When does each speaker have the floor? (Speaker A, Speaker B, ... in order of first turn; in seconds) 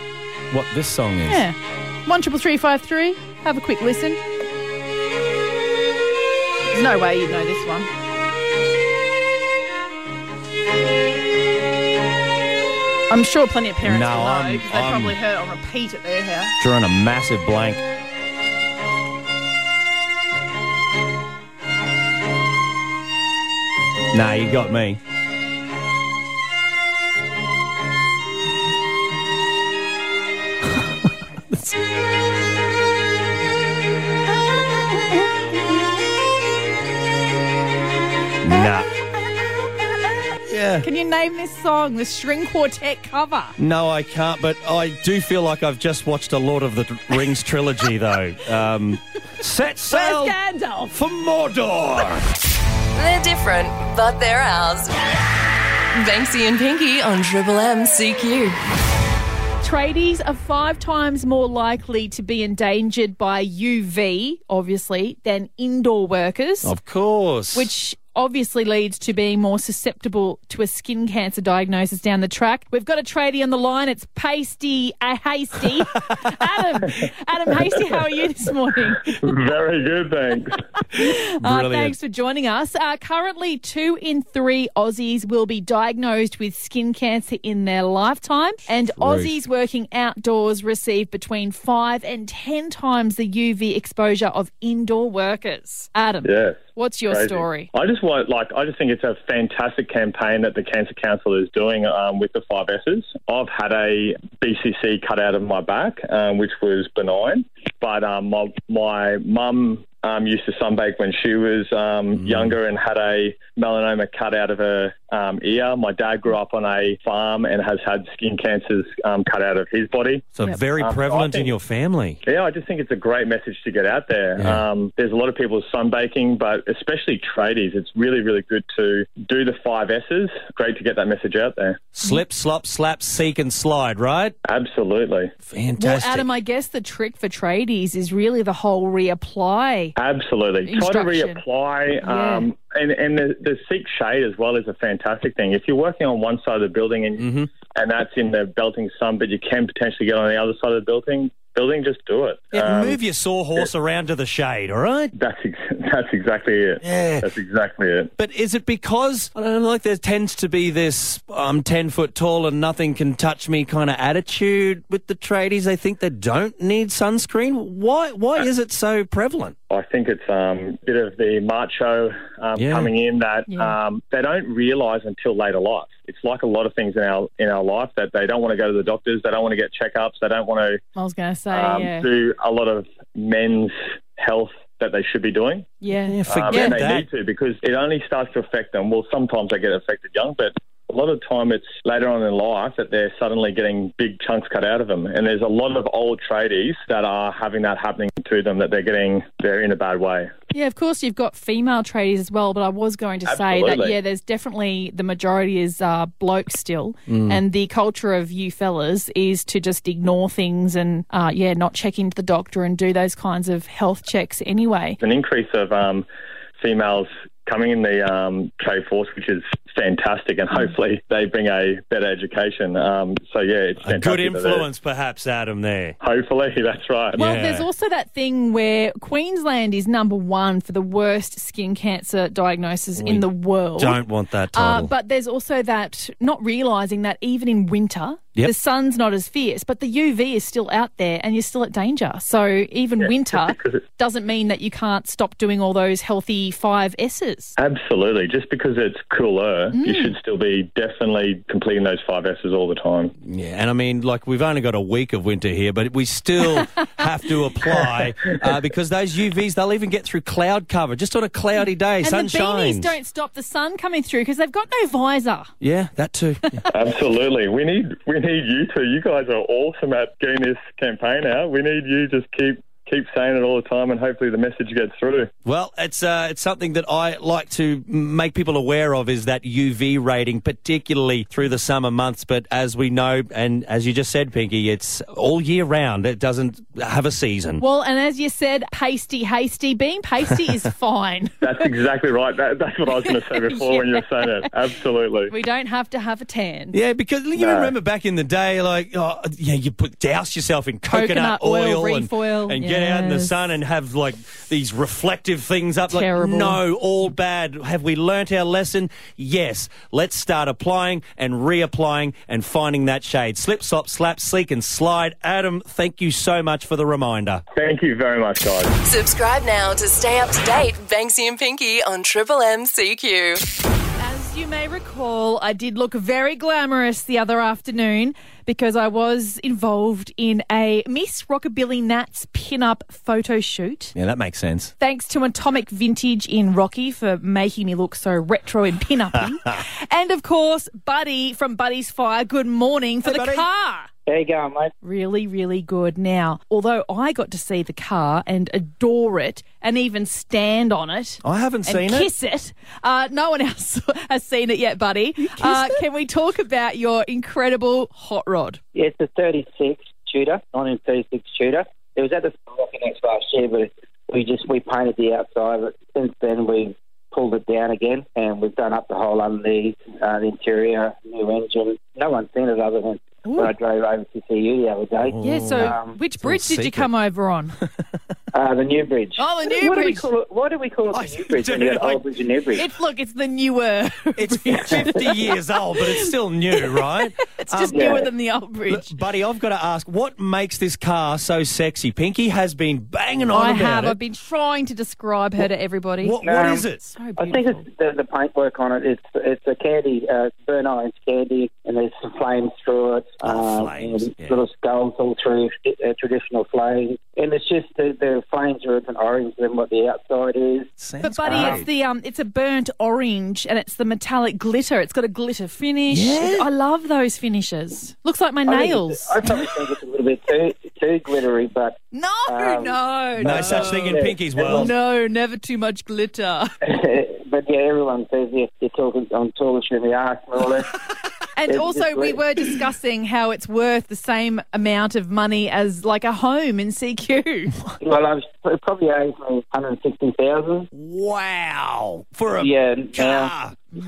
Speaker A: 0.5-1.4, 13.8-15.2, 16.6-17.8, 24.1-25.0, 31.5-31.8, 38.4-38.9, 40.4-40.9, 43.6-50.4, 50.9-52.2, 66.6-67.7, 75.9-76.5, 80.9-81.9, 88.9-89.4, 112.2-112.5, 120.3-122.2, 124.4-124.6, 131.9-134.3, 135.5-136.2, 147.2-147.5, 152.5-155.1, 156.8-157.3, 158.2-169.5, 172.6-172.9, 186.1-187.1, 207.1-207.4, 223.8-225.9, 227.1-227.7, 233.0-234.9, 253.2-262.9, 265.6-266.6, 275.4-287.6, 296.7-317.4, 333.9-334.7, 343.0-343.4, 351.2-352.1, 355.2-355.8, 375.0-376.9, 380.9-382.0, 384.2-388.1, 388.7-393.9, 396.0-396.9, 403.2-404.4, 410.8-411.6, 415.9-416.5, 423.2-424.7, 440.7-443.6
Speaker B: 1.2-4.2, 6.7-7.9, 13.1-16.6, 40.8-43.5, 49.9-51.0, 59.6-66.7, 67.5-79.3, 80.9-97.7, 135.8-139.9, 140.6-141.4, 142.0-142.5, 173.5-173.8, 180.9-182.1, 185.8-186.8, 200.5-215.0, 227.2-247.5, 249.7-250.1, 262.0-265.5, 266.5-266.7, 287.6-291.4, 292.9-294.5, 295.3-296.8, 300.9-303.5, 305.9-306.6, 324.0-333.9, 334.8-343.9, 344.8-358.6, 375.2-377.6, 379.2-380.1, 382.6-389.0, 393.3-396.2, 396.8-397.6, 411.0-419.2, 421.9-423.7, 424.5-426.5, 431.3-437.6
Speaker C: 52.9-55.0, 55.9-58.6, 318.8-323.4
Speaker D: 77.5-78.0, 79.1-80.6, 96.2-121.5, 122.2-131.8, 134.4-135.3, 140.0-153.0, 155.1-158.1, 169.7-180.8, 181.5-185.7, 186.2-200.3, 203.2-203.9, 215.0-216.1, 216.6-224.7, 226.0-227.2, 243.1-243.8, 247.6-253.1, 266.7-275.3, 291.4-295.3, 297.4-297.7, 317.5-318.7
Speaker E: 344.1-344.7, 358.7-376.0, 378.3-382.7, 387.7-388.1, 396.2-410.7, 411.2-411.6, 418.4-424.7, 426.6-430.7, 431.4-432.3, 437.8-440.6, 442.4-443.3